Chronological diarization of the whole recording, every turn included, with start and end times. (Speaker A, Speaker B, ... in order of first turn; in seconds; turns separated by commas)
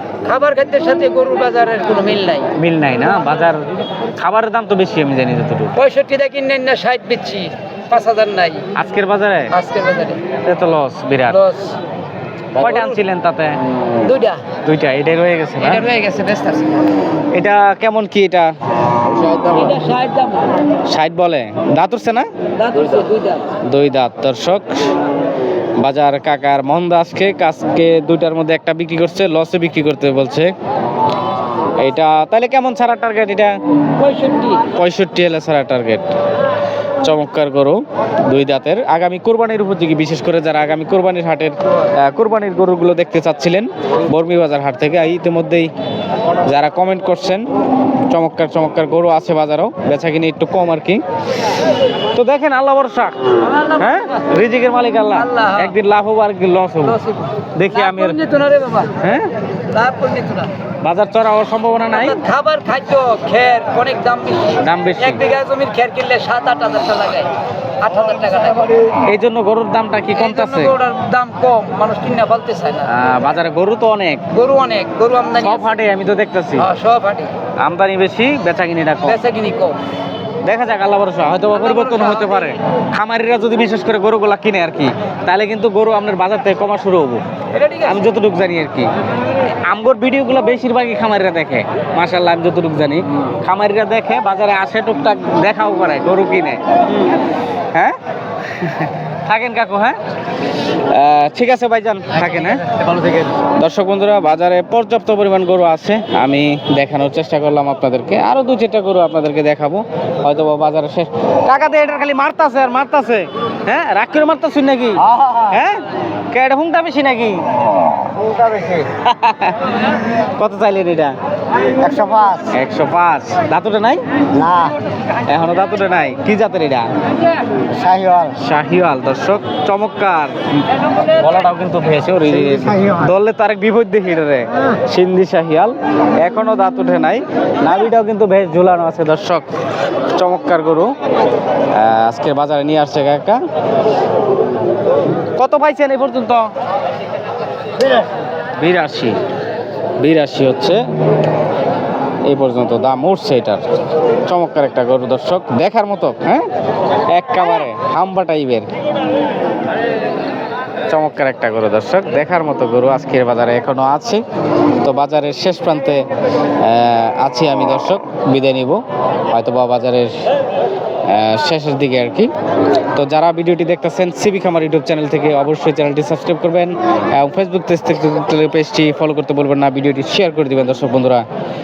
Speaker A: 0.2-2.5, Speaker B: 2.5-5.8, Speaker A: 5.8-8.7, Speaker B: 8.7-9.5, Speaker A: 9.5-10.2, Speaker B: 10.4-11.4, Speaker A: 11.3-11.8, Speaker B: 12.6-13.6, Speaker A: 14.0-14.4, Speaker B: 14.6-15.8, Speaker A: 15.6-16.8, Speaker B: 17.3-18.5, Speaker C: 19.1-19.7, Speaker A: 19.7-20.5, Speaker B: 20.9-22.3, Speaker A: 22.6-23.4, Speaker B: 23.6-24.6, Speaker B: 25.8-30.5, Speaker B: 31.8-33.5, Speaker B: 34.7-36.0, Speaker B: 37.0-45.7, Speaker B: 46.4-47.4, Speaker B: 48.1-51.0, Speaker B: 52.1-57.0, Speaker A: 55.3-55.7, Speaker B: 57.5-58.2, Speaker A: 57.8-58.9, Speaker B: 59.0-59.3, Speaker A: 59.7-60.5, Speaker B: 60.8-62.2, Speaker A: 61.9-68.7, Speaker B: 64.6-65.2, Speaker B: 68.9-70.8, Speaker A: 70.2-72.8, Speaker B: 72.8-74.2, Speaker A: 74.3-75.6, Speaker B: 75.4-76.7, Speaker A: 76.6-77.3, Speaker B: 77.6-79.2, Speaker A: 79.0-79.8, Speaker B: 80.4-87.2, Speaker A: 81.6-82.5, Speaker B: 87.8-88.9, Speaker B: 89.4-96.6, Speaker B: 98.5-100.0, Speaker B: 100.9-102.7, Speaker B: 103.5-117.4, Speaker C: 118.2-118.7, Speaker B: 118.8-121.1, Speaker C: 121.8-122.5, Speaker B: 122.5-124.0, Speaker C: 124.3-124.7, Speaker B: 125.3-126.9, Speaker C: 127.7-128.3, Speaker B: 128.4-130.4, Speaker B: 131.1-139.5, Speaker B: 140.2-140.9, Speaker B: 141.7-143.4, Speaker B: 145.3-146.5, Speaker B: 148.6-149.2, Speaker B: 150.0-150.8, Speaker B: 152.3-153.6, Speaker B: 154.3-156.4, Speaker B: 157.1-158.7, Speaker B: 160.9-164.2, Speaker B: 164.8-166.0, Speaker B: 166.6-170.1, Speaker B: 171.1-172.3, Speaker B: 172.9-181.2